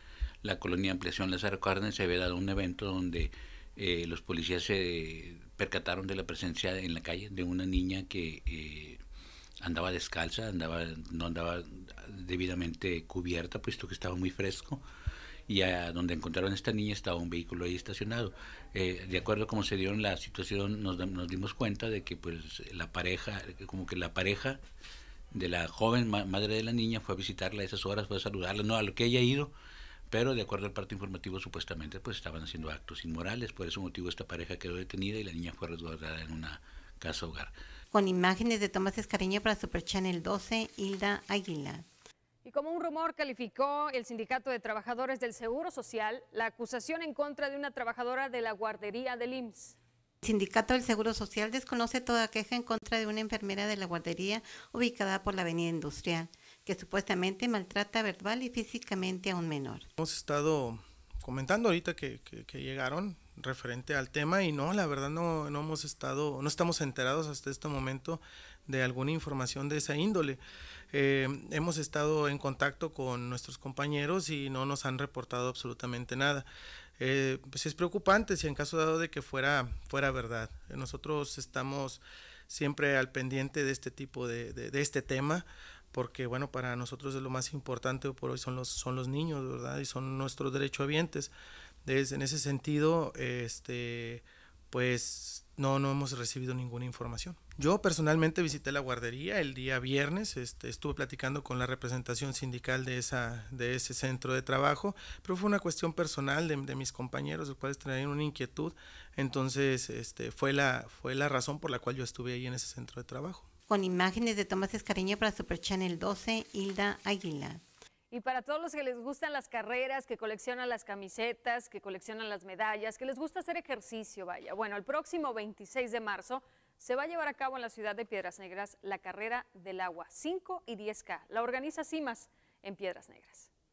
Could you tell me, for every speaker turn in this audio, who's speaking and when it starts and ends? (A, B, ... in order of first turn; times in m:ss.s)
0:00.4-0:09.0 A
0:09.6-0:14.8 A
0:15.5-0:24.6 A
0:25.3-0:29.5 A
0:30.1-0:37.5 A
0:37.9-0:41.8 B
0:42.4-0:49.8 C
0:50.2-0:59.9 B
1:00.0-1:10.4 D
1:10.9-1:16.4 D
1:17.0-1:31.3 D
1:31.8-1:53.5 D
1:53.7-1:57.6 B
1:58.1-2:13.5 C